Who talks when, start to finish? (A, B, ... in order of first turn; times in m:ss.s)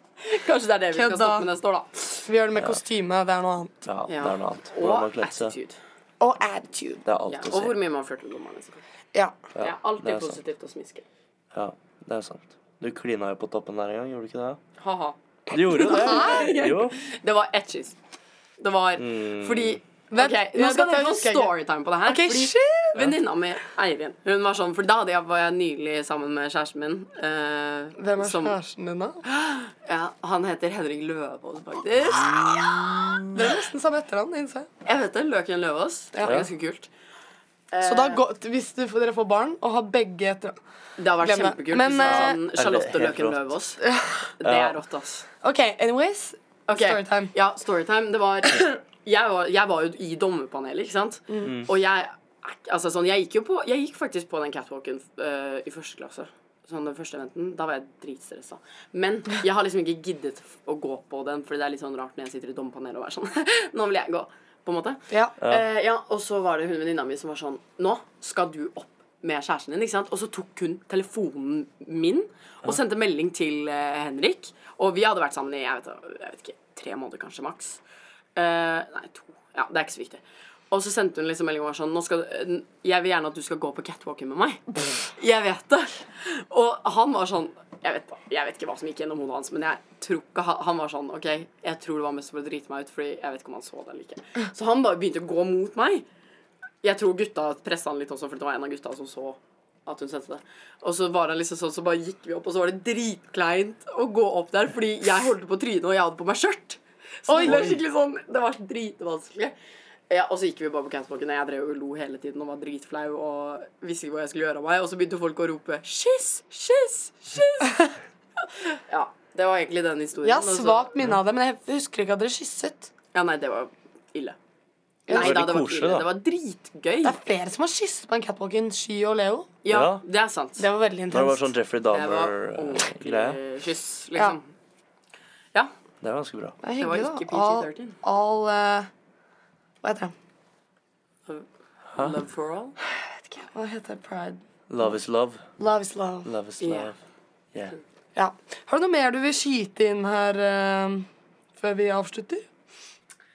0:00.2-0:02.3 A
0:00.9-0:01.5 B
0:02.3-0:03.8 B
0:03.9-0:05.6 C
0:04.1-0:05.8 A
0:06.2-0:07.0 B
0:07.0-0:07.8 C
0:07.3-0:08.8 A
0:09.6-0:10.4 C
0:09.6-0:11.0 A
0:11.5-0:14.6 C
0:14.8-0:18.0 A
0:15.5-0:17.0 C
0:15.8-0:16.6 B
0:18.6-0:28.6 A
0:19.0-0:19.8 C
0:20.1-0:23.0 B
0:28.0-0:29.2 B
0:29.2-0:33.4 A
0:33.3-0:34.7 B
0:34.8-0:36.9 A
0:36.1-0:36.5 B
0:37.7-0:38.2 A
0:37.8-0:40.6 B
0:41.0-0:43.8 A
0:41.2-0:42.4 B
0:42.0-0:43.4 C
0:43.8-0:44.3 B
0:44.4-0:45.3 A
0:44.4-0:44.8 C
0:45.4-0:47.3 B
0:46.7-1:17.8 A
0:51.3-0:51.6 B
0:51.4-0:51.7 C
1:05.1-1:05.4 B
1:18.4-1:36.0 A
1:36.8-1:49.6 A
1:47.3-1:47.8 B
1:47.4-1:47.8 C
1:50.1-1:57.9 A
1:58.4-2:00.9 A
2:00.2-2:02.9 B
2:03.1-2:04.4 A
2:05.1-2:05.4 B
2:05.1-2:07.2 A
2:05.1-2:06.1 C
2:07.0-2:09.5 B
2:09.6-2:10.7 A
2:09.7-2:10.0 C
2:10.6-2:11.5 B
2:11.1-2:13.4 C
2:11.9-2:14.5 A
2:16.0-2:16.6 C
2:16.6-2:18.9 B
2:16.8-2:18.0 A
2:19.8-2:20.1 B
2:21.3-2:22.8 A
2:23.5-2:24.4 B
2:24.7-2:25.4 C
2:25.6-2:26.3 B
2:26.3-2:27.0 C
2:26.6-2:26.9 A
2:28.2-2:32.4 B